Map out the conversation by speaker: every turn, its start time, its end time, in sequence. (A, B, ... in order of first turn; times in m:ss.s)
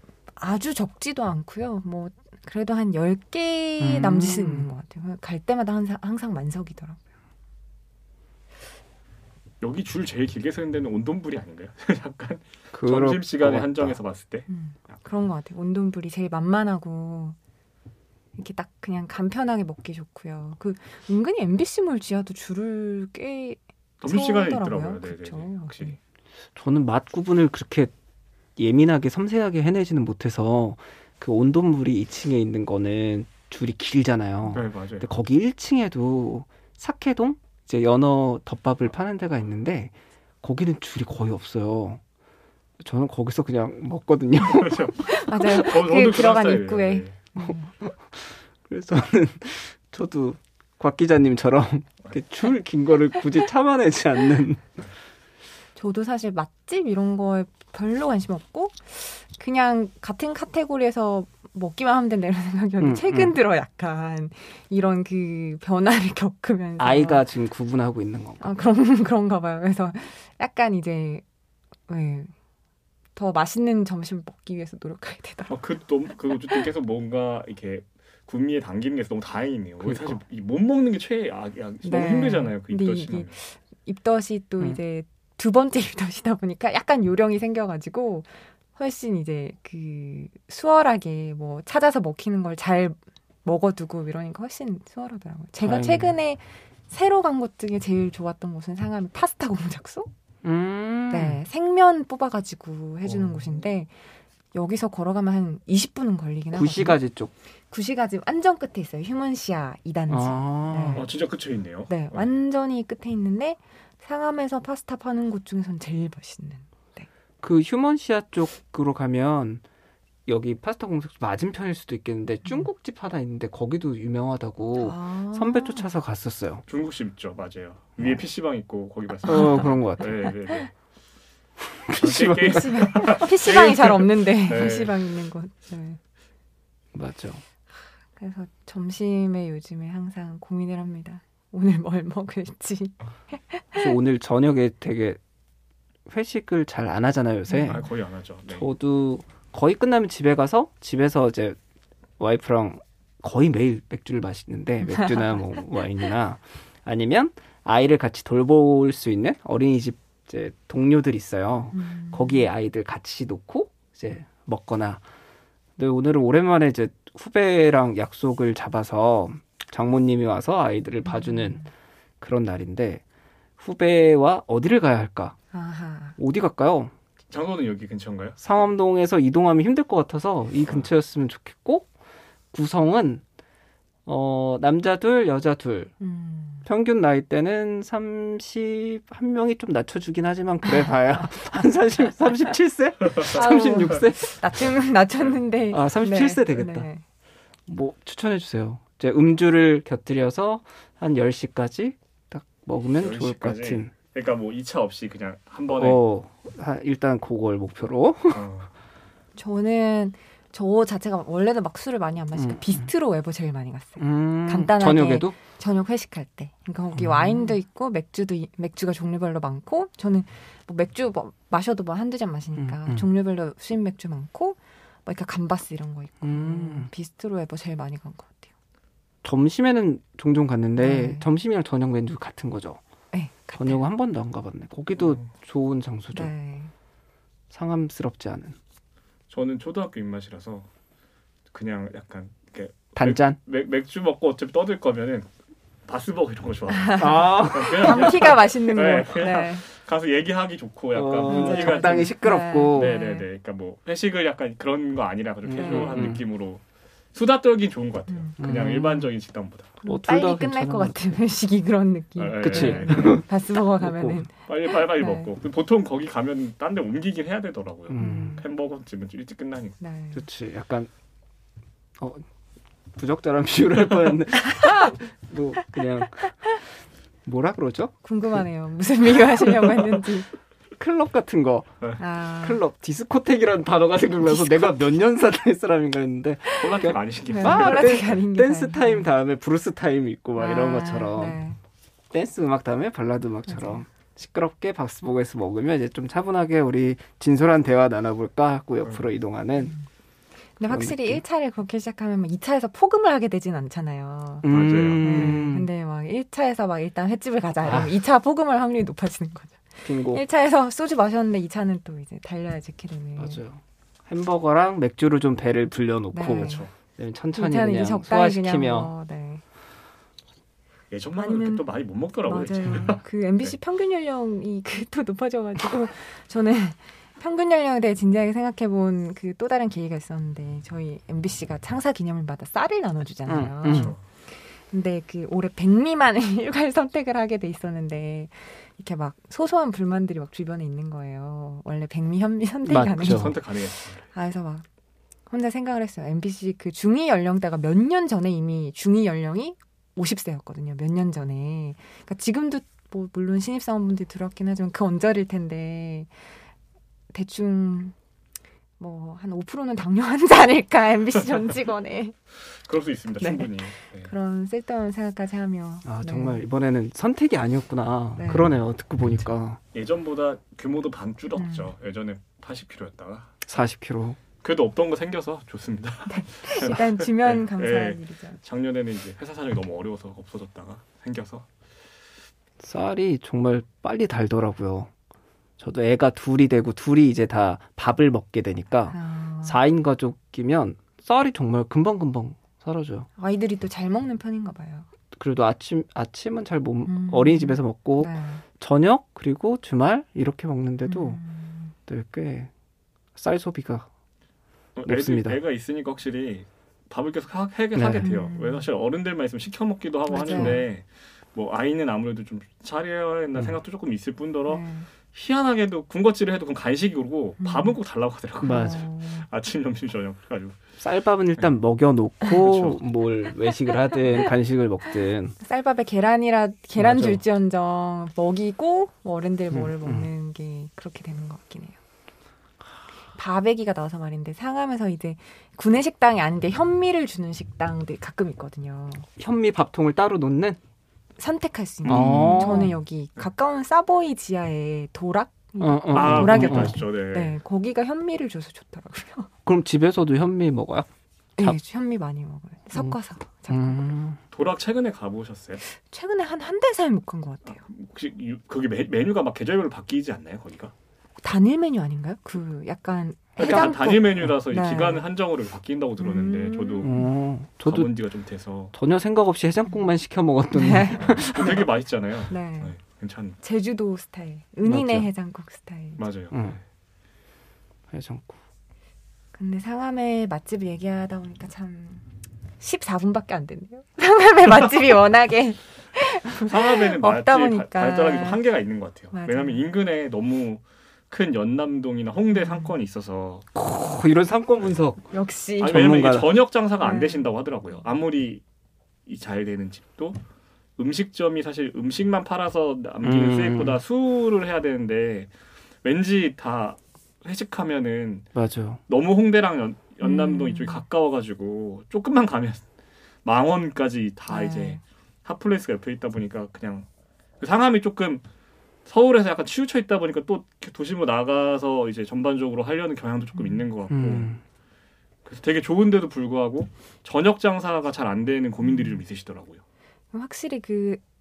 0:00.4-0:07.0 A
0:03.8-0:04.7 B
0:09.6-0:14.5 C
0:12.7-0:14.0 B
0:14.5-0:17.4 A
0:18.4-0:26.0 A
0:24.0-0:26.0 C
0:26.6-0:27.9 B
0:28.6-0:42.0 B
0:34.5-0:35.1 C
0:42.8-0:44.9 B
0:44.5-0:47.2 C
0:45.0-0:47.7 A
0:47.4-0:54.7 B
0:55.8-1:07.3 A
1:02.8-1:03.4 B
1:06.8-1:08.6 B
1:08.4-1:11.2 A
1:11.9-1:12.3 A
1:13.2-1:15.6 A
1:15.5-1:23.4 C
1:19.8-1:20.2 B
1:21.8-1:40.1 A
1:35.6-1:36.1 B
1:40.4-1:41.4 B
1:41.1-1:43.9 A
1:43.0-1:43.6 C
1:44.5-1:47.0 A
1:46.5-1:47.3 B
1:47.7-1:51.1 A
1:50.1-1:51.1 B
1:50.9-1:52.3 C
1:51.9-1:57.1 A
1:57.4-1:59.6 B
2:00.3-2:06.6 B
2:04.8-2:05.9 A
2:06.7-2:10.7 C
2:09.2-2:10.2 B
2:09.3-2:09.7 A
2:11.6-2:13.1 B
2:11.9-2:15.1 C
2:12.5-2:16.0 A
2:16.9-2:17.4 B
2:18.2-2:23.9 A
2:23.8-2:25.2 B
2:26.1-2:27.9 B
2:27.5-2:27.8 A
2:27.7-2:28.7 C
2:28.5-2:31.6 B
2:32.2-2:45.0 B
2:35.0-2:35.4 A
2:41.7-2:42.5 A
2:45.8-2:51.6 B
2:51.1-2:51.7 A
2:52.2-2:53.0 B
2:53.6-2:55.4 B
2:55.5-2:56.2 A
2:56.2-2:56.9 B
2:57.3-2:58.4 C
2:58.4-3:01.9 B
3:02.5-3:03.2 B
3:04.1-3:05.9 B
3:06.0-3:06.7 A
3:06.6-3:14.4 B
3:13.2-3:17.0 A
3:15.7-3:16.9 B
3:17.7-3:23.9 B
3:23.0-3:26.0 C
3:25.7-3:28.5 B
3:28.3-3:28.7 C
3:29.4-3:48.5 A
3:32.4-3:32.8 B
3:34.0-3:35.4 B
3:37.0-3:37.5 B
3:42.6-3:43.1 B
3:46.2-3:46.9 B
3:49.2-3:52.8 B
3:50.8-3:51.3 A
3:53.1-3:53.8 A
3:53.6-3:56.3 B
3:55.0-3:55.3 C
3:56.1-3:56.7 A
3:57.5-3:58.6 B
3:59.3-4:00.7 C
4:01.5-4:05.3 C
4:03.0-4:03.4 B
4:05.9-4:12.2 C
4:06.7-4:09.6 A
4:07.0-4:08.4 B
4:10.9-4:13.0 B
4:11.2-4:13.3 A
4:12.7-4:16.6 C
4:15.5-4:16.2 B
4:15.6-4:16.0 A
4:17.1-4:19.8 C
4:18.4-4:19.1 B
4:19.8-4:25.3 A
4:19.9-4:21.2 B
4:22.2-4:23.2 C
4:22.4-4:24.2 B
4:24.5-4:29.8 C
4:27.9-4:28.4 B
4:28.0-4:28.4 A
4:29.8-4:30.3 A
4:30.1-4:30.9 B
4:32.0-4:32.3 B
4:33.0-4:36.6 B
4:37.2-4:38.0 B
4:38.0-4:40.3 A
4:40.8-4:41.8 B
4:42.0-4:42.6 A
4:42.4-4:51.4 B
4:44.4-4:44.7 A
4:46.6-4:48.2 C
4:47.3-4:49.1 A
4:50.4-4:51.6 A
4:52.1-4:59.8 B
4:53.5-4:53.8 A
5:00.6-5:13.4 A
5:00.7-5:01.2 B
5:04.4-5:05.7 B
5:04.4-5:05.4 C
5:07.6-5:08.0 B
5:09.8-5:10.2 B
5:13.2-5:18.9 B
5:16.1-5:16.7 A
5:16.3-5:16.7 C
5:17.3-5:19.4 A
5:20.9-5:23.6 C
5:21.2-5:21.7 A
5:22.3-5:43.6 A
5:33.3-5:34.0 B
5:33.7-5:34.0 C
5:42.7-5:43.4 B
5:42.9-5:44.1 C
5:44.1-5:44.6 A
5:45.3-5:56.1 A
5:57.1-5:58.0 A
5:58.8-6:02.2 A
6:02.6-6:04.1 C
6:03.2-6:06.4 A
6:05.8-6:09.6 B
6:08.2-6:08.5 A
6:09.7-6:13.3 C
6:11.4-6:11.7 A
6:13.5-6:14.2 B
6:14.4-6:21.5 C
6:16.1-6:18.4 A
6:22.6-6:24.9 B
6:25.6-6:33.1 B
6:28.9-6:29.6 A
6:33.2-6:34.9 A
6:35.1-6:41.2 B
6:36.9-6:38.4 A
6:40.9-6:41.7 A
6:41.9-6:42.5 B
6:43.2-6:43.9 B
6:44.8-7:00.6 C
6:44.8-6:45.4 B
6:47.8-6:48.1 B
6:48.0-6:48.6 A
6:50.1-6:50.6 A
6:50.3-6:50.6 B
6:54.5-6:54.9 A
6:57.4-6:57.8 A
6:58.4-6:58.8 B
6:58.4-6:59.3 A
7:00.8-7:05.4 B
7:02.4-7:02.8 C
7:05.4-7:11.8 A
7:06.8-7:07.2 B
7:09.5-7:10.1 B
7:13.2-7:19.1 A
7:19.2-7:20.6 B
7:21.2-7:29.3 A
7:21.8-7:22.7 C
7:21.9-7:22.8 B
7:25.6-7:26.8 B
7:25.9-7:27.4 C
7:29.5-7:30.9 B
7:31.4-7:33.9 A
7:33.5-7:34.2 B
7:34.3-7:35.6 C
7:35.6-7:37.6 A
7:37.6-7:40.7 C
7:41.2-7:45.0 A
7:43.4-7:47.0 C
7:46.0-7:47.1 A
7:46.8-7:47.9 B
7:47.6-7:48.7 C
7:48.7-7:51.6 B
7:50.5-7:51.6 A
7:51.0-7:53.4 C
7:52.3-7:52.8 A
7:53.4-7:56.0 A
7:54.6-7:55.1 B
7:56.0-7:56.6 C
7:57.9-7:58.4 B
7:59.3-8:02.0 A
8:02.6-8:08.4 A
8:06.3-8:13.5 C
8:09.1-8:09.6 A
8:12.4-8:12.7 A
8:13.6-8:15.1 B
8:15.1-8:15.9 A
8:15.6-8:18.4 C
8:15.6-8:16.4 B
8:16.8-8:17.3 A
8:19.1-8:20.2 C
8:20.8-8:25.3 C
8:23.0-8:23.8 B
8:25.8-8:28.3 C
8:28.4-8:28.8 B
8:28.9-8:32.6 C
8:30.0-8:30.8 A
8:33.2-8:36.9 C
8:34.3-8:34.8 A
8:37.4-8:38.2 C
8:38.9-8:44.3 C
8:43.4-8:43.6 A
8:43.9-8:44.4 B
8:45.2-8:49.6 C
8:48.6-8:49.0 A
8:50.1-8:51.0 A